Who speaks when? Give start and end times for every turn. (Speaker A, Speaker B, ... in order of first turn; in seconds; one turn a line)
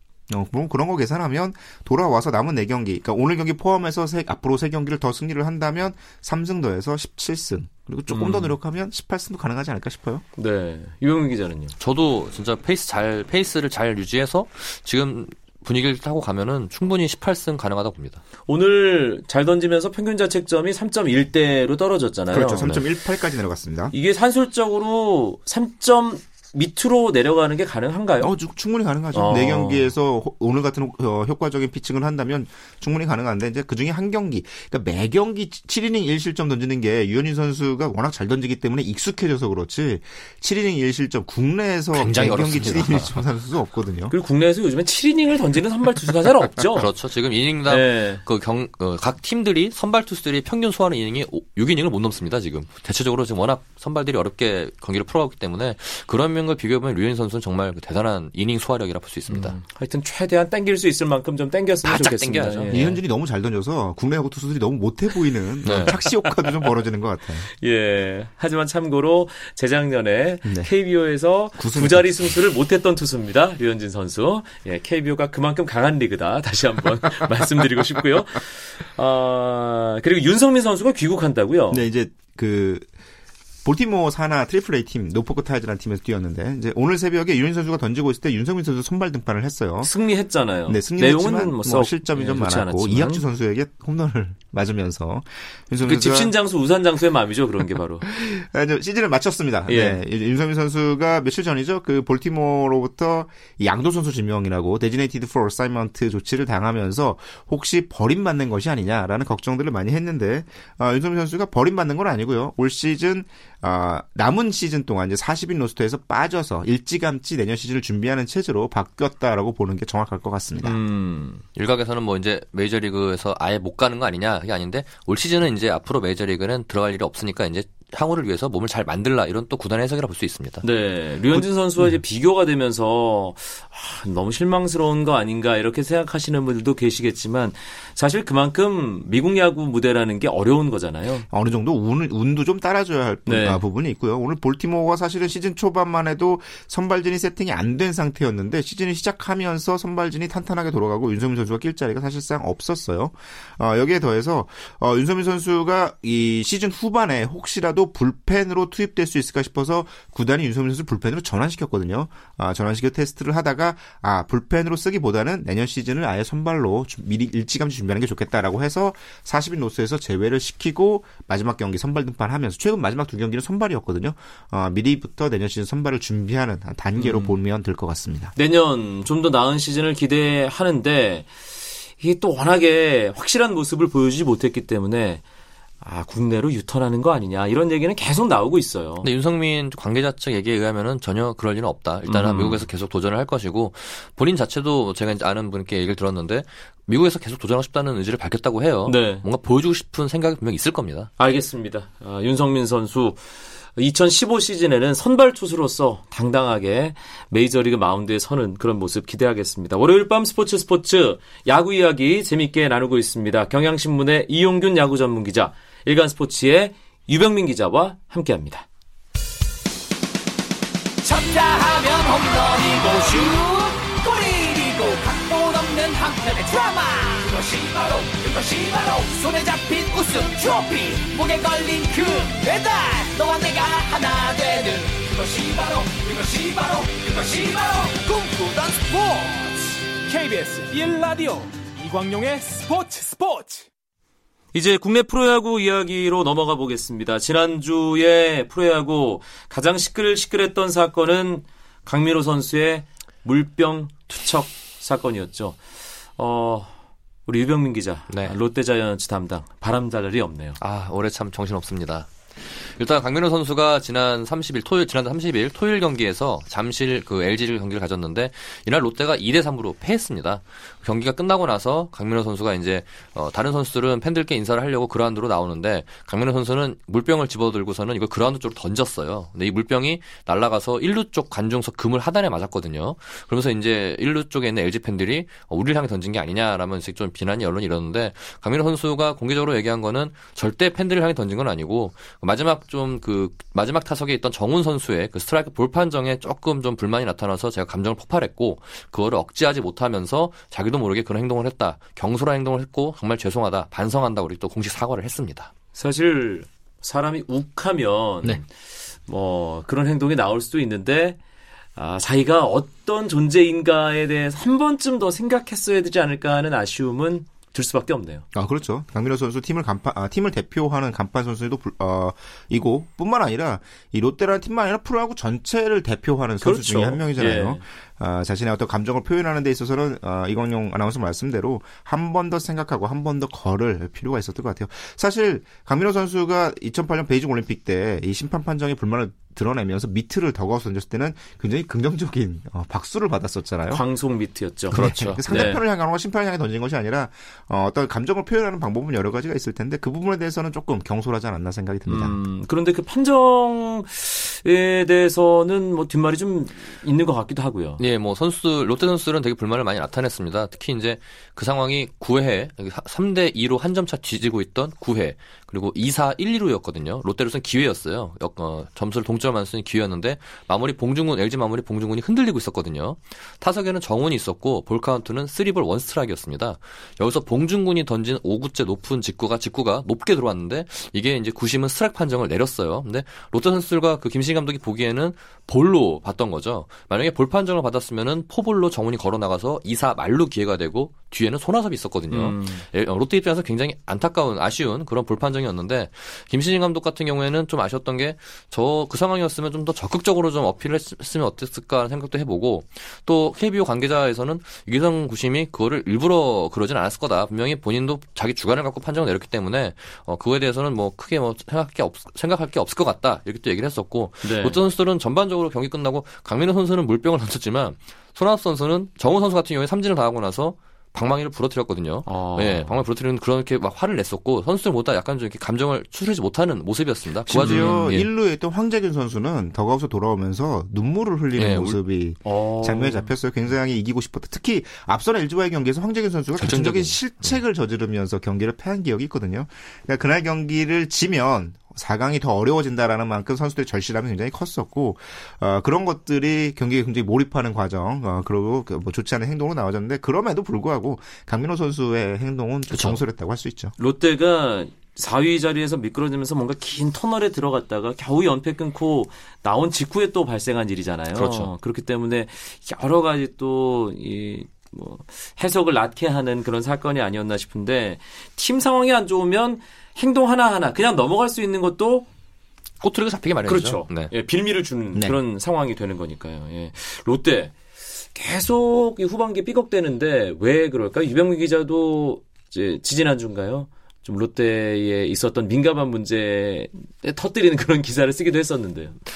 Speaker A: 0.3-10.2
Speaker B: 8.1-8.5
Speaker B: 10.4-11.7
Speaker C: 11.8-18.2
Speaker B: 18.4-22.7
Speaker A: 22.3-23.9
Speaker B: 23.9-28.3
Speaker A: 28.2-44.1
Speaker B: 29.1-29.9
Speaker C: 41.9-43.2
Speaker B: 44.1-46.9
Speaker C: 46.7-59.6
Speaker B: 47.7-48.2
Speaker B: 59.3-63.0
Speaker C: 61.8-62.8
Speaker A: 62.7-67.5
Speaker C: 65.6-66.0
Speaker B: 67.6-81.8
Speaker A: 70.4-70.7
Speaker A: 71.6-72.3
Speaker A: 81.7-82.9
Speaker A: 83.6-89.9
Speaker B: 89.8-93.2
Speaker A: 90.7-96.3
Speaker B: 95.8-98.1
Speaker A: 98.1-120.8
Speaker B: 99.7-100.0
Speaker B: 120.6-121.4
Speaker C: 121.5-130.6
Speaker B: 130.6-141.2
Speaker A: 141.3-178.3
Speaker B: 143.2-143.6
Speaker B: 176.9-177.3
Speaker B: 178.3-181.3
Speaker B: 182.0-185.2
Speaker B: 185.8-189.1
Speaker C: 189.0-201.1
Speaker B: 192.1-192.7
Speaker B: 198.8-199.2
Speaker B: 201.2-203.2
Speaker B: 203.8-218.7
Speaker D: 221.0-239.6
Speaker E: 240.0-243.7
Speaker B: 244.5-255.6
Speaker B: 256.2-256.7
Speaker B: 257.2-260.6
Speaker C: 260.6-305.5
Speaker B: 305.7-308.5
Speaker B: 309.1-311.2
Speaker B: 311.8-318.2
Speaker A: 318.3-343.8
Speaker B: 326.4-327.6
Speaker B: 343.7-345.6
Speaker C: 344.7-345.6
Speaker A: 344.7-352.2
Speaker B: 351.9-357.8
Speaker C: 357.8-428.1
Speaker B: 392.1-392.6
Speaker B: 414.2-414.6
Speaker B: 422.1-422.7
Speaker A: 427.3-453.7
Speaker B: 427.4-427.8
Speaker C: 431.4-431.8
Speaker B: 432.2-433.1
Speaker C: 436.4-437.3
Speaker C: 452.7-453.0
Speaker B: 453.8-472.1
Speaker C: 461.1-461.5
Speaker C: 472.8-474.1
Speaker B: 473.5-477.6
Speaker B: 478.1-488.9